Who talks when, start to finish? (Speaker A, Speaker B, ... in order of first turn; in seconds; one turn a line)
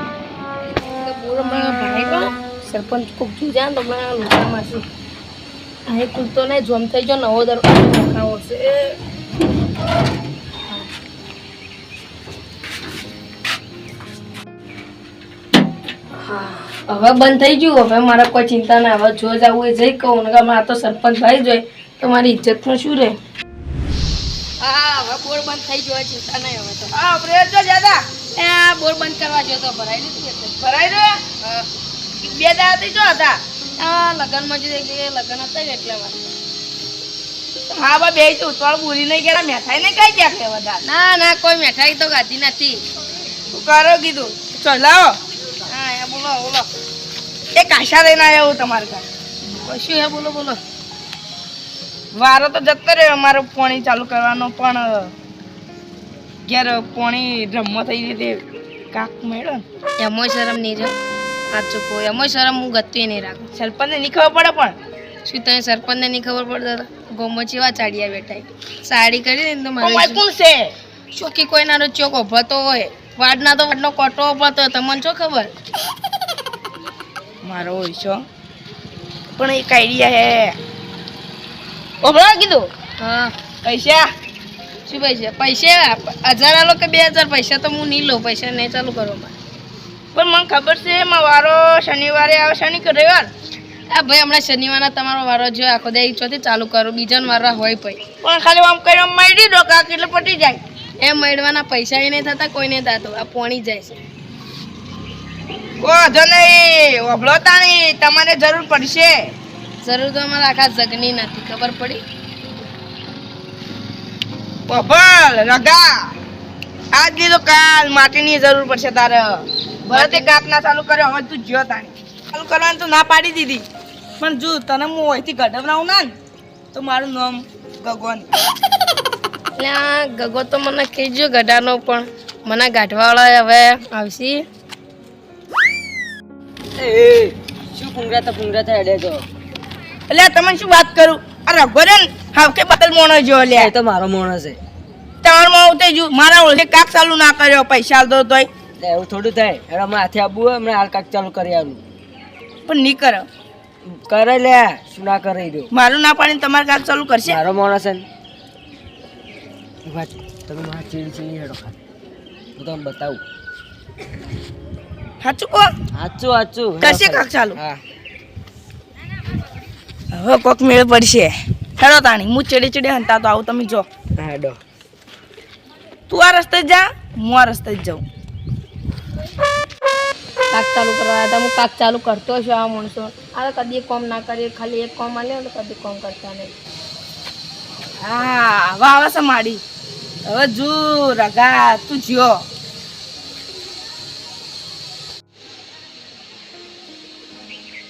Speaker A: 0.6-4.8
Speaker A: 5.9-9.0
Speaker A: 16.1-23.2
Speaker A: 24.6-26.9
Speaker B: 26.9-28.0
Speaker A: 28.4-30.6
Speaker B: 30.6-31.2
Speaker A: 31.4-31.7
Speaker B: 32.2-33.4
Speaker A: 33.8-36.3
Speaker B: 37.7-40.8
Speaker A: 40.8-42.8
Speaker B: 43.5-45.1
Speaker A: 45.7-46.7
Speaker B: 47.5-49.0
Speaker A: 49.5-50.6
Speaker B: 52.1-55.1
Speaker B: 56.5-59.6
Speaker A: 60.0-60.9
Speaker A: 61.5-63.5
Speaker B: 63.5-64.8
Speaker A: 65.2-70.2
Speaker B: 69.8-70.7
Speaker A: 71.1-75.5
Speaker B: 77.4-78.2
Speaker B: 79.4-80.5
Speaker B: 82.0-82.7
Speaker A: 83.0-83.3
Speaker B: 83.6-84.1
Speaker A: 84.9-89.3
Speaker B: 90.1-93.3
Speaker A: 93.9-98.0
Speaker B: 98.2-100.6
Speaker A: 101.0-104.0
Speaker B: 105.8-109.3
Speaker A: 109.8-112.0
Speaker B: 114.7-116.1
Speaker B: 116.9-123.6
Speaker A: 119.9-120.3
Speaker B: 124.2-126.1
Speaker B: 126.7-128.3
Speaker A: 129.6-134.5
Speaker C: 136.8-139.3
Speaker B: 140.1-143.7
Speaker C: 143.5-144.6
Speaker B: 145.2-148.5
Speaker C: 148.8-151.8
Speaker B: 152.7-153.3
Speaker C: 153.9-155.7
Speaker B: 155.7-157.4
Speaker C: 157.2-158.1
Speaker C: 159.8-161.8
Speaker C: 162.6-163.2
Speaker B: 165.2-165.7
Speaker C: 165.9-167.8
Speaker B: 166.8-167.6
Speaker B: 170.1-173.9
Speaker C: 174.2-174.6
Speaker B: 176.1-178.0
Speaker A: 180.5-186.5
Speaker B: 188.0-189.6
Speaker B: 190.2-192.4